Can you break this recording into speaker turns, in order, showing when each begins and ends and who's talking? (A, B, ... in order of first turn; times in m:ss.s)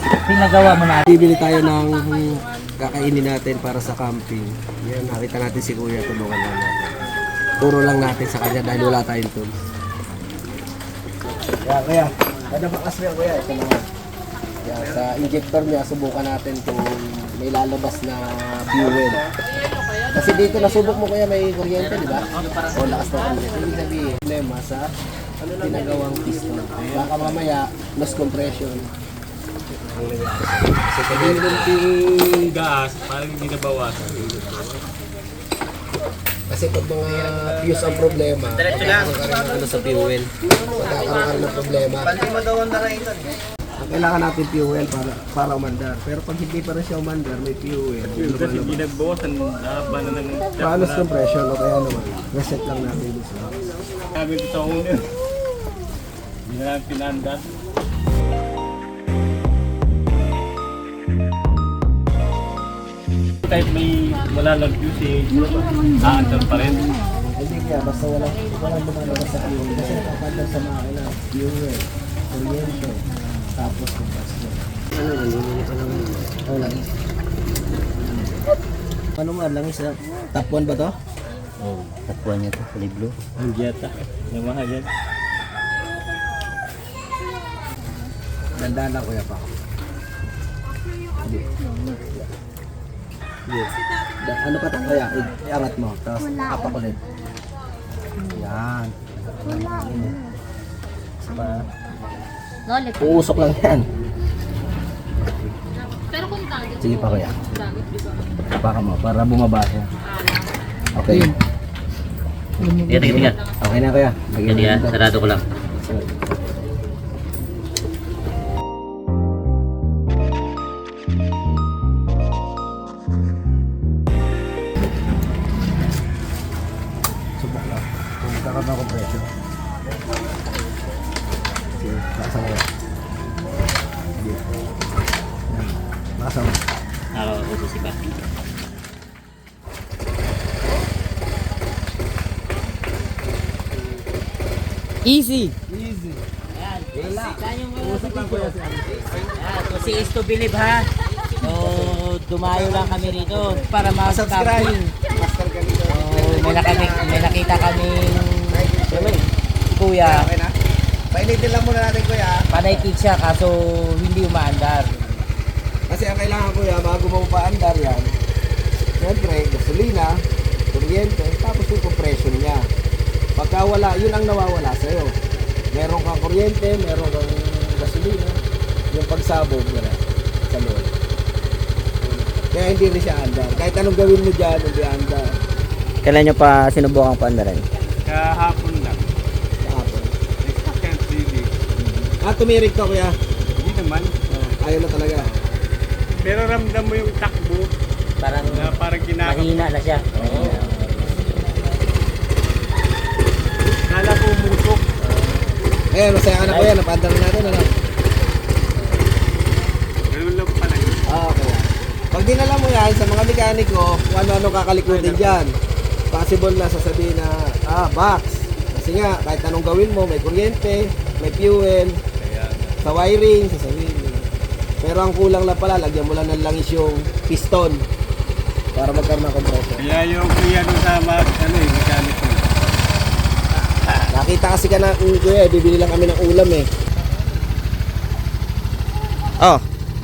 0:00.2-0:01.0 A
0:01.0-0:06.9 B
0:07.6-0:09.5 B
0:11.6-0:13.8 B
0:14.6-0:19.3 B
0:20.1-0:24.9 B
0:21.8-0:23.0 A
0:25.4-0:28.9 B
0:26.8-0:27.3 C
0:29.9-0:31.8 B
0:31.1-0:34.5 C
0:34.2-0:34.6 B
0:36.5-0:42.2 B
0:37.4-0:37.8 C
0:38.6-0:39.1 A
0:42.2-0:43.0 D
0:42.2-0:43.0 A
0:43.8-0:48.9 B
0:48.1-0:51.1 C
0:50.6-0:53.6 B
0:54.1-0:55.1 C
0:56.4-0:57.5 C
1:03.4-1:06.9 C
1:07.2-1:16.9 B
1:19.2-1:21.0 B
1:21.6-1:23.1 A
1:23.4-1:24.9 C
1:28.6-1:29.5 B
1:31.2-1:32.2 B
1:33.5-1:37.0 B
1:38.2-1:40.2 B
1:41.2-1:41.7 B
1:42.8-1:43.8 B
1:46.8-1:47.4 B
1:48.5-1:49.9 B
1:50.9-1:51.4 B
1:52.6-1:55.0 B
1:52.7-1:53.4 A
1:54.4-1:55.4 A
1:55.8-1:56.1 B
2:07.4-2:09.3 B
2:11.8-2:12.6 B
2:15.5-2:16.6 B
2:17.1-2:18.1 A
2:25.0-2:25.6 A
2:25.7-2:26.2 B
2:26.5-2:28.5 A
2:26.9-2:29.3 B
2:29.3-2:30.9 A
2:31.4-2:34.9 A
2:31.4-2:37.6 B
2:35.9-2:40.3 A
2:38.5-2:39.2 B
2:40.0-2:40.5 B
2:41.1-2:42.9 B
2:42.5-2:45.2 A
2:45.9-2:48.2 B
2:49.0-2:52.7 B
2:53.4-2:55.1 B
2:55.7-2:58.4 B
2:58.9-3:00.9 B
3:02.3-3:05.3 B
3:06.0-3:07.6 D
3:08.0-3:09.1 C
3:09.6-3:10.1 B
3:10.4-3:11.5 C
3:12.2-3:13.2 B
3:13.4-3:14.5 C
3:14.6-3:15.3 B
3:16.1-3:17.7 C
3:18.2-3:21.3 A
3:18.4-3:20.6 C
3:23.9-3:24.9 C
3:25.9-3:27.7 B
3:26.4-3:26.7 A
3:30.1-3:31.1 C
3:31.0-3:35.5 B
3:34.8-3:35.4 C
3:36.1-3:42.0 B
3:42.2-3:42.8 C
3:42.8-3:44.3 B
3:44.8-3:47.8 B
3:48.7-3:49.9 B
3:49.8-3:52.6 C
3:53.6-3:54.1 C
3:54.1-3:56.7 B